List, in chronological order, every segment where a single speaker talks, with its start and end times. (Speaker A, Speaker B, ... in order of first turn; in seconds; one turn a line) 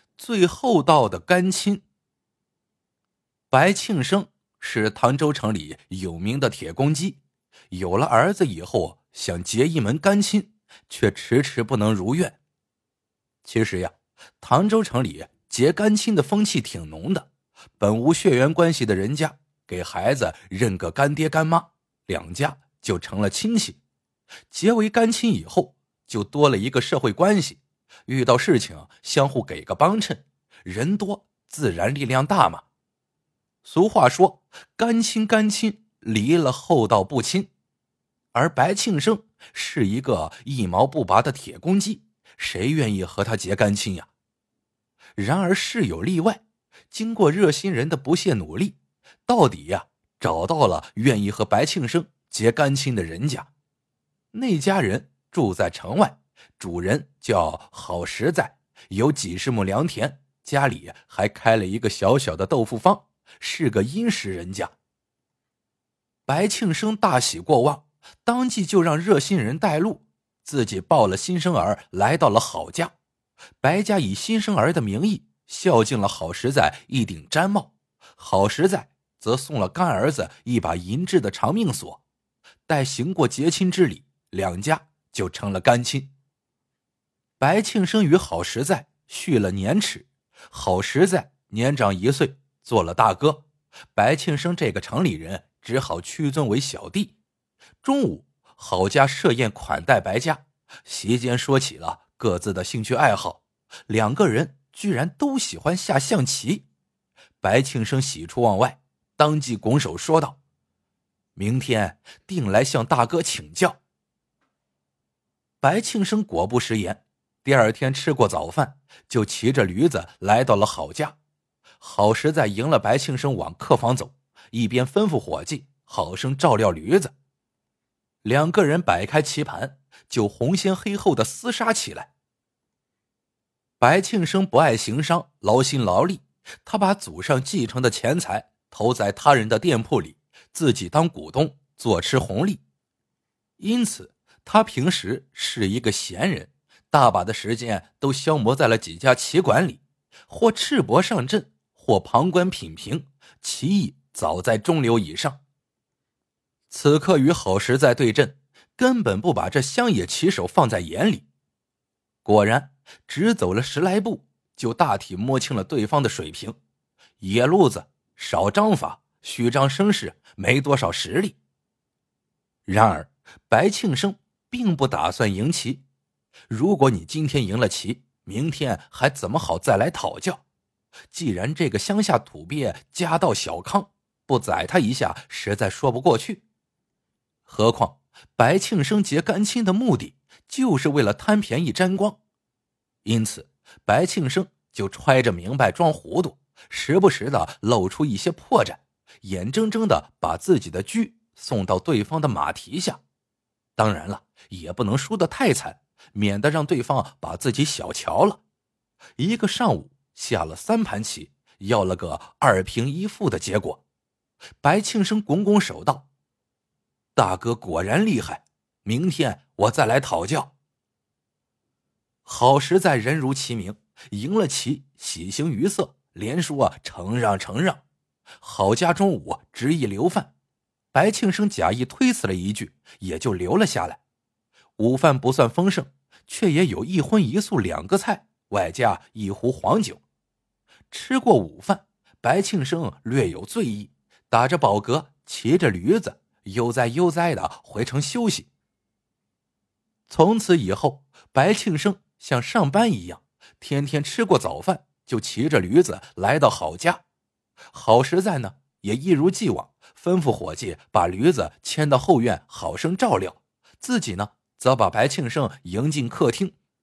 Speaker A: 0.2-1.8
Speaker A: 3.5-12.4
Speaker A: 13.4-23.8
Speaker A: 24.5-32.6
Speaker A: 33.6-37.5
Speaker A: 38.3-44.1
Speaker A: 45.1-53.5
Speaker A: 54.3-64.7
Speaker A: 66.3-72.9
Speaker A: 73.6-82.0
Speaker A: 82.7-86.1
Speaker A: 87.4-97.2
Speaker A: 97.8-106.7
Speaker A: 107.4-110.4
Speaker A: 111.3-113.8
Speaker A: 115.6-121.2
Speaker A: 121.8-127.1
Speaker A: 128.2-132.1
Speaker A: 133.8-142.6
Speaker A: 143.6-155.4
Speaker A: 156.7-161.2
Speaker A: 162.2-166.6
Speaker A: 167.2-171.4
Speaker A: 172.7-175.8
Speaker A: 176.5-180.4
Speaker A: 181.1-186.4
Speaker A: 187.4-192.2
Speaker A: 193.0-203.0
Speaker A: 203.8-208.4
Speaker A: 209.2-213.8
Speaker A: 214.6-216.1
Speaker A: 217.2-220.5
Speaker A: 222.2-227.8
Speaker A: 228.4-230.3
Speaker A: 230.9-234.0
Speaker A: 234.8-240.0
Speaker A: 240.9-248.5
Speaker A: 250.1-257.0
Speaker A: 257.7-266.5